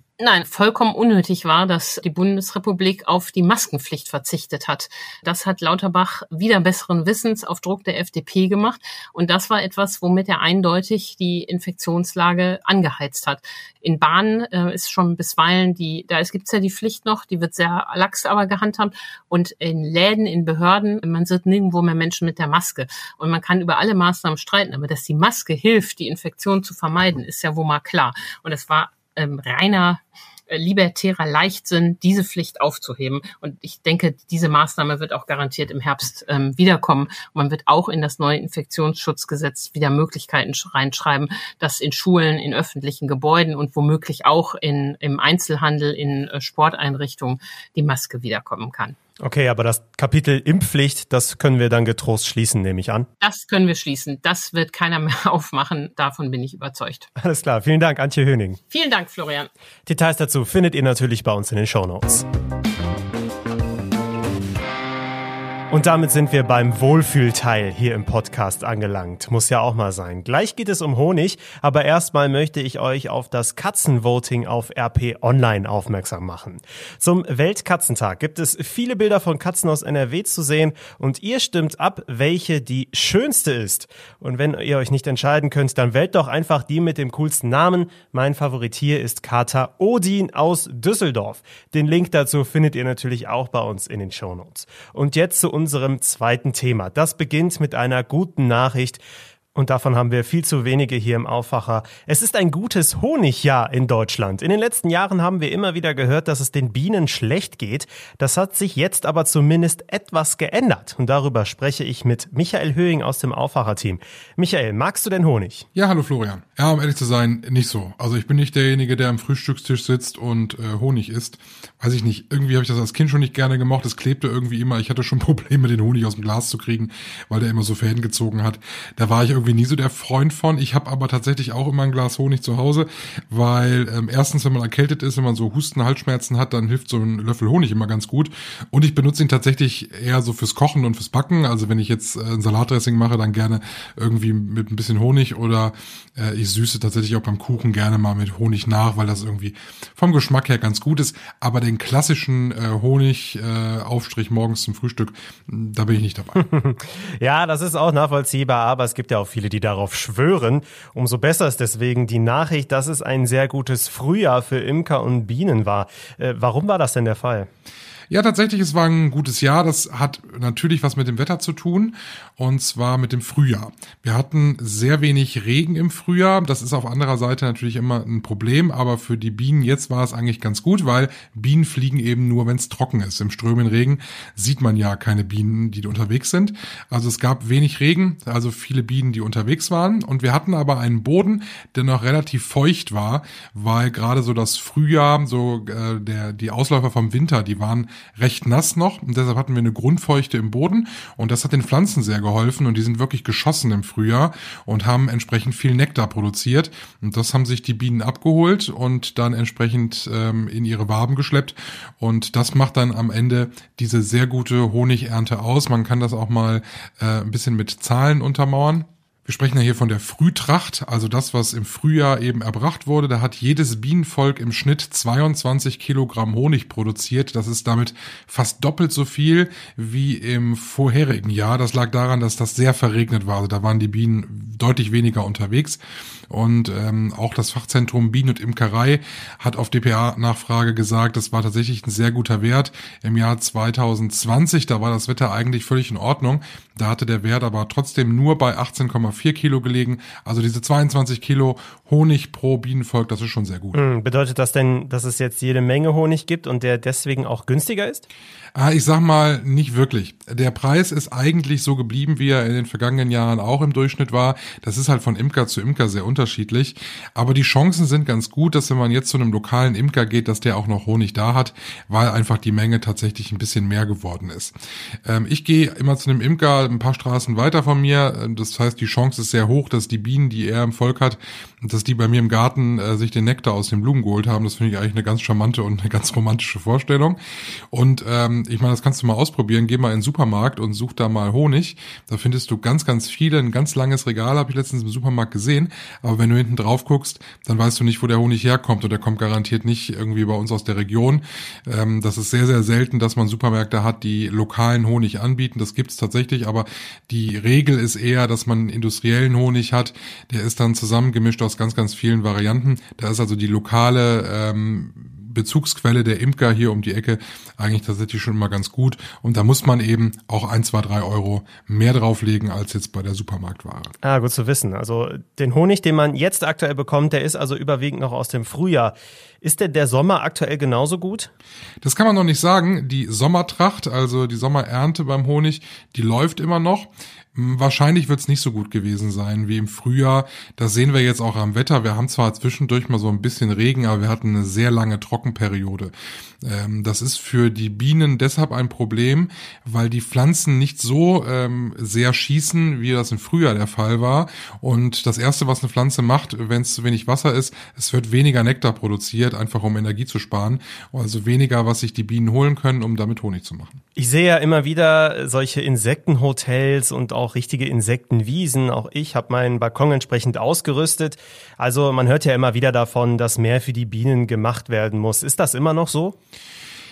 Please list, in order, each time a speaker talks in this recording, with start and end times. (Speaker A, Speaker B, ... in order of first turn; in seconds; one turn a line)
Speaker A: 0.2-49.0
Speaker B: 49.2-53.0
Speaker A: 53.2-57.1
Speaker B: 57.3-58.5
Speaker A: 58.7-59.5
Speaker B: 59.9-62.2
Speaker B: 65.7-99.0
Speaker B: 99.5-115.6
Speaker C: 115.7-156.4
Speaker B: 156.3-167.5
Speaker C: 168.1-253.8
Speaker B: 253.7-258.0
Speaker C: 258.6-274.5
Speaker C: 275.1-287.2
Speaker C: 287.7-323.9
Speaker B: 324.0-331.2
Speaker C: 331.8-363.8
Speaker B: 364.0-376.1